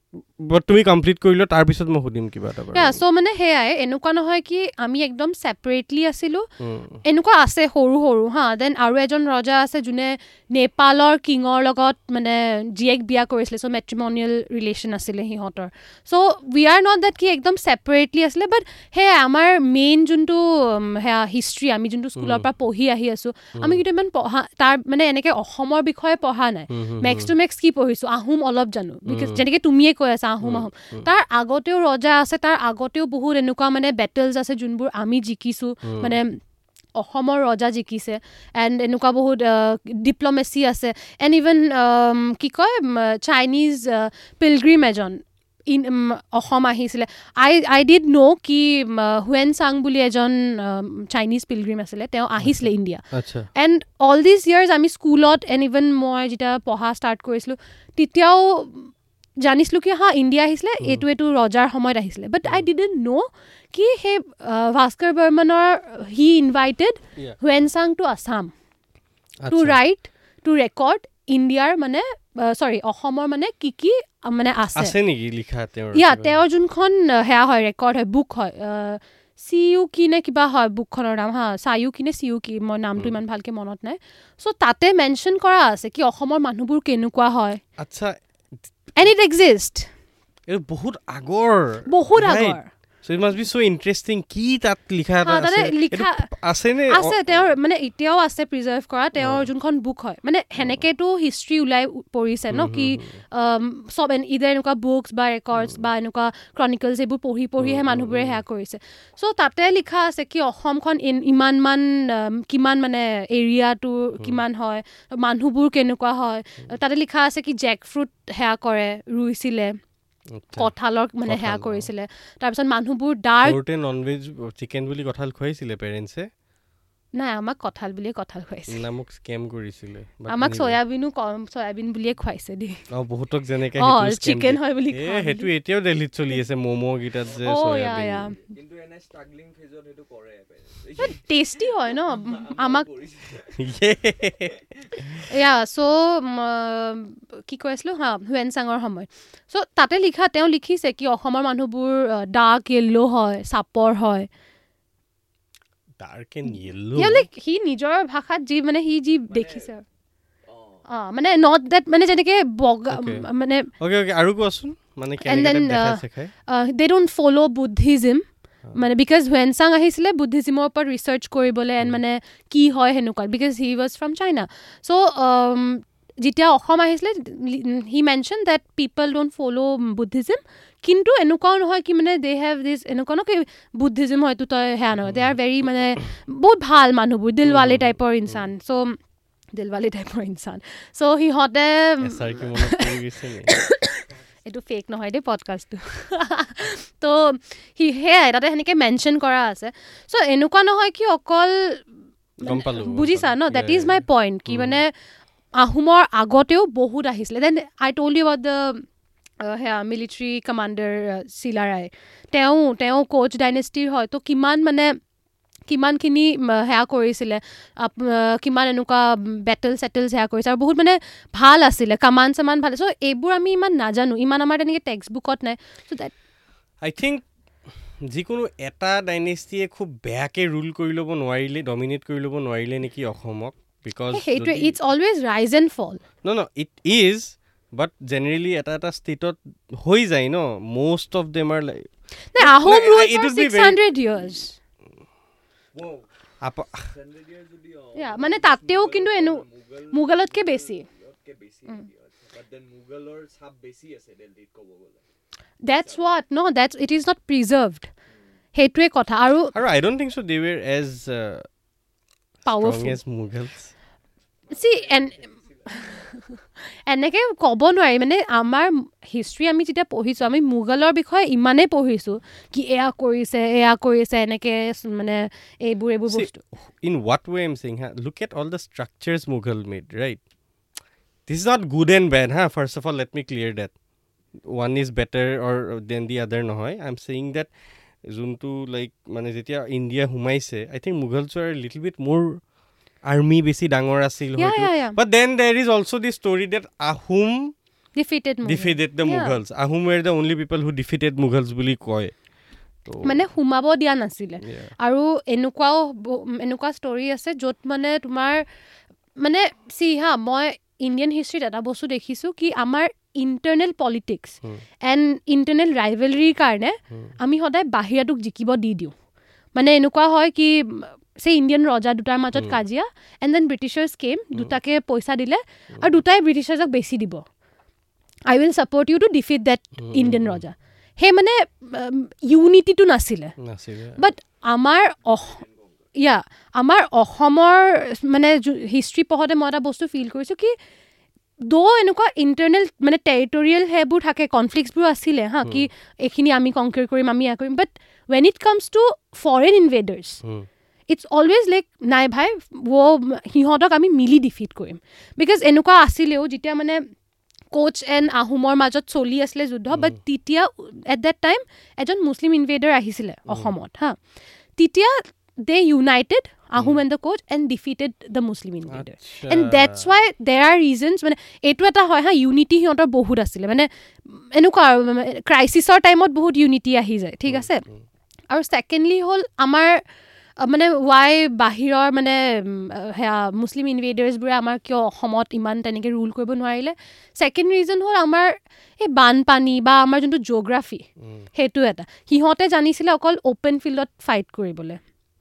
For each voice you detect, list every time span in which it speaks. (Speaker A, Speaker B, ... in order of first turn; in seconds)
Speaker A: 0.4-3.0, 6.6-7.0, 22.2-22.5, 26.7-27.3, 29.1-29.4, 30.4-31.1, 35.9-36.2, 52.4-53.5, 69.4-69.8, 74.8-76.3, 87.8-88.2, 90.5-97.5, 99.2-99.5, 102.5-103.2, 107.6-108.4, 120.3-120.7, 121.3-121.9, 123.4-126.3, 128.7-130.8, 132.9-138.3, 143.6-144.6, 156.0-157.3, 162.9-163.2, 163.8-166.3, 187.4-188.4, 192.0-193.5, 202.4-204.8, 226.8-227.2, 228.0-234.7, 236.2-243.8, 246.4-246.9, 259.5-261.5, 262.6-263.7, 276.1-280.2, 281.3-283.7, 284.5-287.5, 288.0-292.4, 293.1-297.5, 298.4-302.1, 302.9-303.2, 304.4-304.7, 329.8-330.4, 333.4-334.0, 359.7-360.0, 368.7-369.9, 377.3-377.7, 391.0-391.3
Speaker B: 2.7-6.5, 7.0-36.4, 37.0-53.0, 53.5-68.5, 69.5-75.0, 75.9-87.6, 89.0-89.9, 91.9-92.7, 95.2-96.3, 96.9-119.8, 120.6-123.6, 127.2-128.8, 130.3-132.8, 133.8-135.5, 137.4-138.4, 141.0-142.9, 145.3-154.3, 157.0-159.8, 160.9-163.7, 165.2-189.0, 189.5-192.9, 193.5-201.8, 202.4-204.9, 205.6-208.9, 209.4-215.0, 215.7-226.1, 234.1-236.0, 242.3-244.6, 248.0-250.9, 255.6-257.9, 258.6-259.5, 262.5-263.0, 264.5-266.3, 266.9-276.4, 294.4-295.0, 298.0-299.4, 303.0-308.4, 309.2-318.9, 319.6-327.2, 328.3-333.4, 334.0-335.4, 336.0-340.5, 341.4-350.2, 350.9-356.9, 357.5-364.0, 364.6-377.7, 378.3-379.8, 380.4-394.8
Speaker C: 137.2-137.7, 138.2-145.2, 159.3-159.7, 160.5-160.9, 245.8-246.1, 246.8-255.0, 255.8-256.1, 264.5-266.1, 335.1-335.9